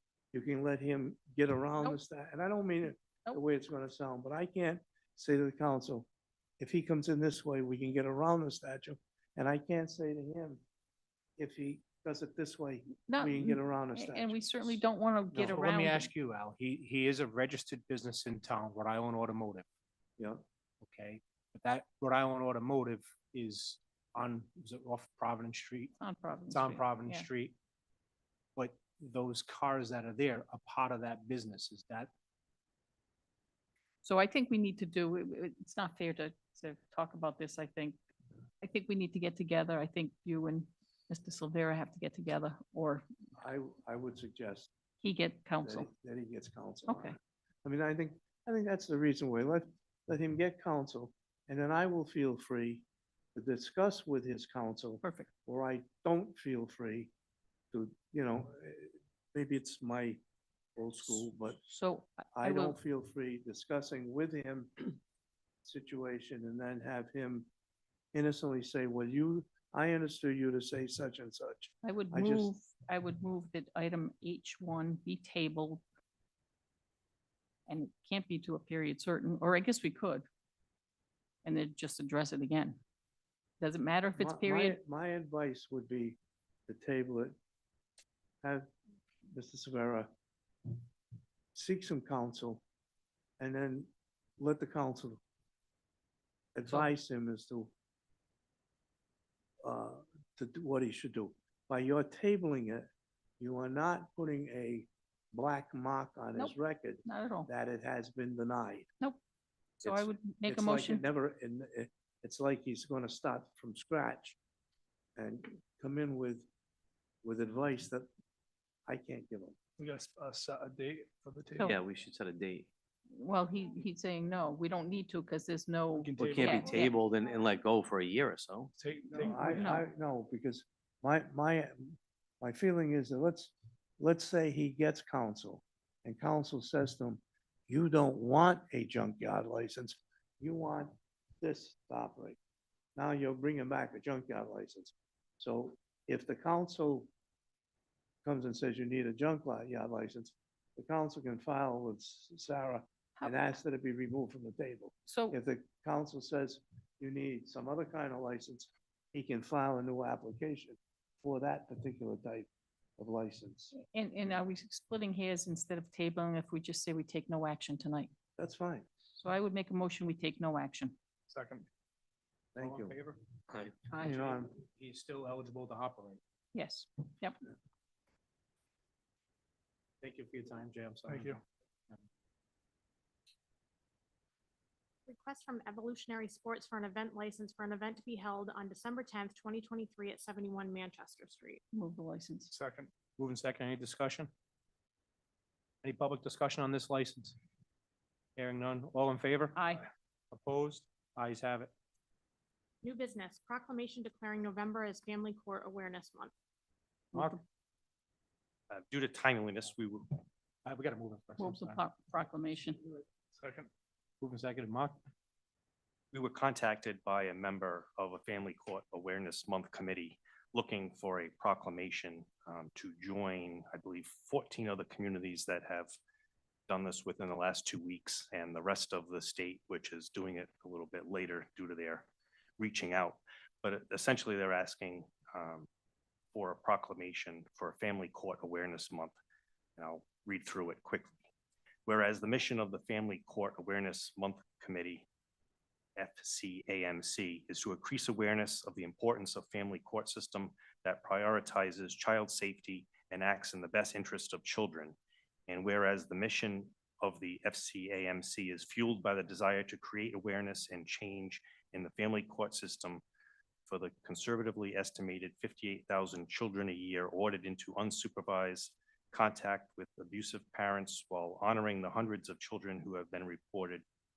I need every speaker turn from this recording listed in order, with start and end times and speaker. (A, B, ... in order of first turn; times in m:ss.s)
0:00.3-0:06.1 A
0:06.6-0:10.6 A
0:11.4-0:15.6 A
0:13.0-0:16.1 B
0:15.4-0:19.6 C
0:20.8-0:26.0 C
0:26.0-0:27.3 B
0:26.5-0:27.5 C
0:28.6-0:32.1 C
0:34.0-0:38.0 B
0:38.6-0:43.1 B
0:43.4-0:44.7 A
0:45.0-0:45.9 B
0:45.6-0:57.1 A
0:46.9-0:47.2 B
0:55.0-0:55.3 B
0:57.7-1:00.2 A
1:00.8-1:01.6 A
1:01.6-1:02.8 B
1:02.3-1:05.0 A
1:05.6-1:07.5 A
1:08.1-1:12.5 A
1:11.8-1:15.8 B
1:17.7-1:20.2 B
1:21.4-1:22.8 B
1:23.6-1:24.8 B
1:24.2-1:27.3 A
1:28.4-1:28.7 A
1:29.3-1:30.1 A
1:31.5-1:32.6 A
1:33.4-1:35.2 A
1:36.5-1:37.7 A
1:39.6-1:42.9 A
1:43.4-1:48.9 A
1:46.4-1:47.5 B
1:49.8-1:51.0 B
1:49.8-1:54.4 A
1:55.2-1:56.5 A
1:57.2-1:58.0 A
1:58.9-1:59.6 A
1:59.8-2:01.7 D
2:01.6-2:02.7 E
2:03.1-2:07.0 B
2:05.9-2:06.9 D
2:06.1-2:08.7 E
2:08.8-2:09.8 D
2:09.1-2:22.4 A
2:09.5-2:09.8 B
2:23.0-2:27.1 A
2:28.2-2:43.7 A
2:35.1-2:35.4 B
2:43.7-2:48.1 B
2:48.4-2:48.9 A
2:49.1-2:51.0 B
2:51.3-2:51.6 D
2:52.5-2:53.0 A
2:52.6-2:53.2 C
2:53.8-2:56.2 C
2:54.0-2:54.5 A
2:56.5-2:57.4 B
3:00.0-3:02.0 C
3:01.1-3:01.4 D
3:05.1-3:11.6 F
3:11.7-3:12.5 B
3:12.5-3:12.9 D
3:13.2-3:14.3 C
3:15.8-3:17.4 C
3:18.4-3:19.6 C
3:19.5-3:19.9 B
3:20.3-3:21.7 C
3:22.8-3:26.3 F
3:27.1-3:27.4 C
3:27.1-3:27.4 B
3:28.7-3:30.2 G
3:30.6-3:31.8 C
3:31.4-3:32.8 B
3:33.4-3:33.7 D
3:34.2-3:35.0 C
3:36.1-3:45.9 G
3:46.7-3:55.7 G
3:56.3-3:59.2 G
3:59.8-4:01.2 G
4:01.8-4:05.0 G
4:06.0-4:15.0 G
4:15.5-4:23.0 G
4:23.7-4:33.8 G